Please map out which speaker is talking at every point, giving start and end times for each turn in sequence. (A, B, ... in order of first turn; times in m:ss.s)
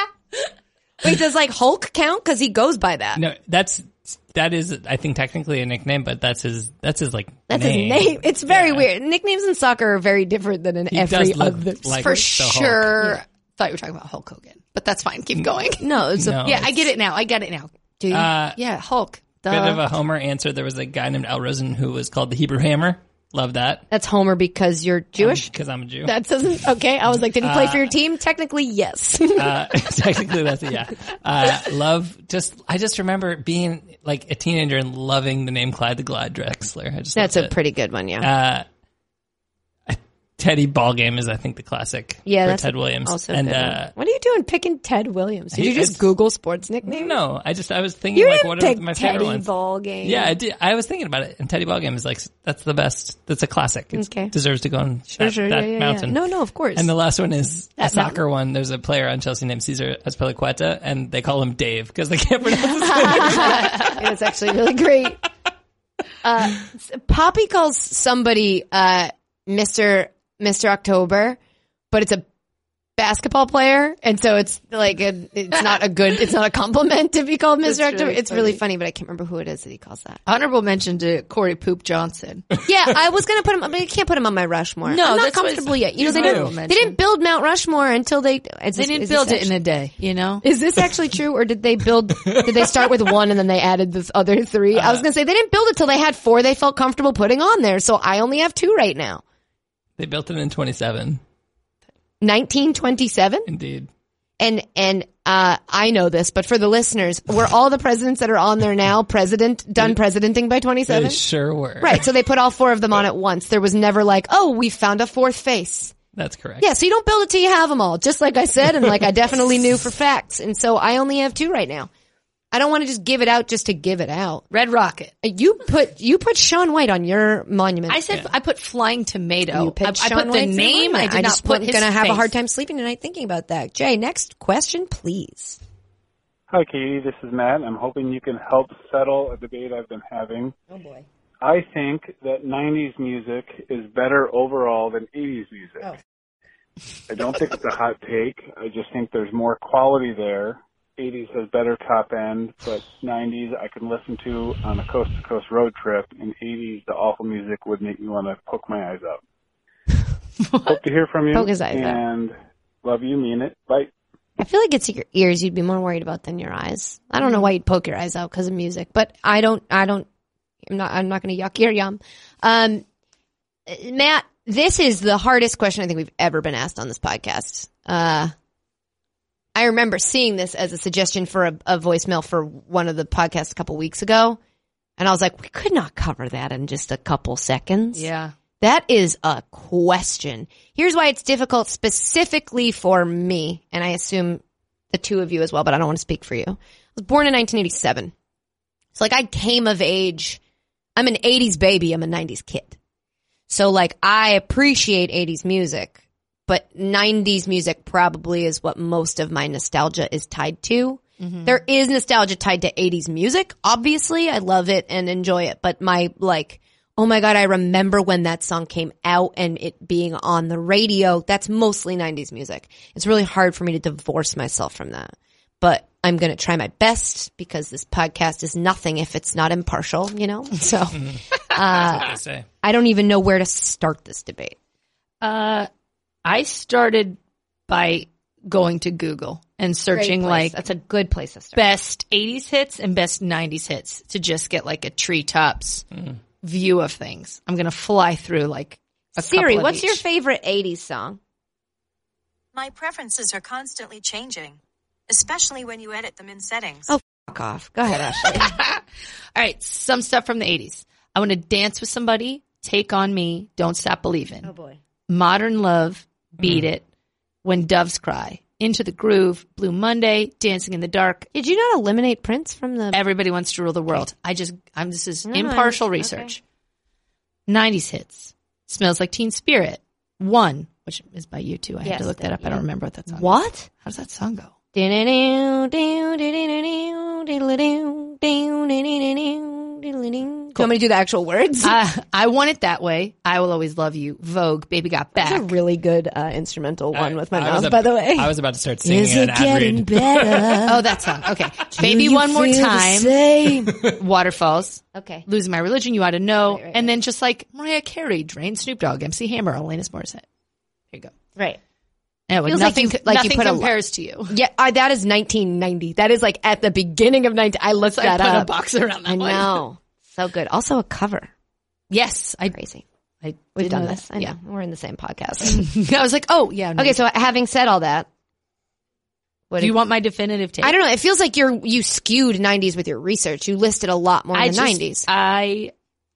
0:01.0-0:03.2 A
0:03.1-0:08.9 B
0:07.5-0:12.2 A
0:10.9-0:13.1 B
0:12.0-0:15.9 C
0:15.8-0:16.7 A
0:16.2-0:16.6 B
0:16.4-0:17.7 C
0:18.0-0:18.3 A
0:18.1-0:18.6 B
0:18.6-0:19.8 C
0:19.5-0:23.8 B
0:23.9-0:25.5 A
0:25.2-0:26.1 B
0:26.0-0:29.6 A
0:27.4-0:27.9 B
0:29.4-0:37.5 B
0:37.1-0:38.2 A
0:38.2-0:38.6 B
0:39.9-0:43.9 B
0:42.2-0:47.2 A
0:45.5-0:46.0 B
0:46.8-0:49.5 B
0:48.1-0:50.3 A
0:50.0-0:56.2 B
0:53.9-0:54.3 A
0:55.1-0:56.9 A
0:56.7-1:03.7 B
0:57.8-0:58.2 C
1:02.7-1:05.2 A
1:03.4-1:03.9 C
1:06.2-1:11.4 A
1:11.9-1:12.2 A
1:13.0-1:20.2 A
1:17.6-1:18.6 C
1:20.2-1:22.4 C
1:22.6-1:29.5 A
1:24.8-1:27.0 C
1:26.0-1:26.6 B
1:28.8-1:30.4 C
1:30.4-1:39.2 A
1:34.7-1:35.0 B
1:40.0-1:41.2 B
1:42.2-1:43.5 A
1:43.4-1:43.9 B
1:44.4-1:51.2 A
1:50.9-1:52.0 B
1:51.8-1:55.9 A
1:56.1-1:56.6 B
1:56.6-2:01.9 A
2:02.5-2:04.4 A
2:04.5-2:05.1 C
2:05.2-2:08.0 A
2:07.9-2:12.3 C
2:09.5-2:15.6 A
2:16.5-2:20.6 D
2:20.7-2:21.0 A
2:21.4-2:25.9 D
2:27.1-2:39.2 D
2:40.4-2:40.8 C
2:40.6-2:43.9 D
2:41.3-2:42.0 A
2:44.4-2:50.1 A
2:50.6-2:52.8 A
2:53.7-2:58.3 A
2:59.6-3:04.4 A
3:05.0-3:08.1 A
3:07.9-3:08.3 C
3:08.6-3:18.1 A
3:18.9-3:20.4 A
3:21.0-3:22.8 A
3:23.5-3:51.0 A
3:31.2-3:31.6 C
3:50.9-3:52.4 B
3:51.5-3:54.6 A
3:55.2-3:55.7 C
3:56.2-4:00.6 C
3:59.9-4:01.6 A
4:01.5-4:05.8 C
4:06.4-4:10.0 C
4:09.2-4:11.2 A
4:12.5-4:16.9 E
4:16.9-4:18.6 A
4:18.2-4:18.8 C
4:19.4-4:24.5 C
4:24.4-4:24.8 A
4:25.1-4:26.8 C
4:26.4-4:26.7 B
4:27.4-4:31.3 C
4:31.3-4:33.0 A
4:32.9-4:36.4 C
4:35.3-4:36.3 A
4:37.5-4:44.5 C
4:41.8-4:43.7 A
4:44.7-4:51.8 A
4:51.6-4:55.5 C
4:55.2-5:00.9 A
4:56.9-5:00.6 B
5:00.7-5:03.1 C
5:01.7-5:03.7 A
5:03.8-5:10.2 C
5:04.9-5:05.2 A
5:06.4-5:07.0 A
5:12.3-5:14.4 C
5:12.4-5:13.7 A
5:14.3-5:18.5 A
5:17.9-5:19.6 C
5:19.0-5:21.3 A
5:21.9-5:22.6 C
5:22.5-5:22.8 A
5:23.2-5:24.3 C
5:23.6-5:25.6 A
5:25.4-5:27.0 C
5:26.8-5:28.1 A
5:29.5-5:29.8 A
5:29.6-5:30.8 C
5:30.6-5:35.1 A
5:34.3-5:35.7 C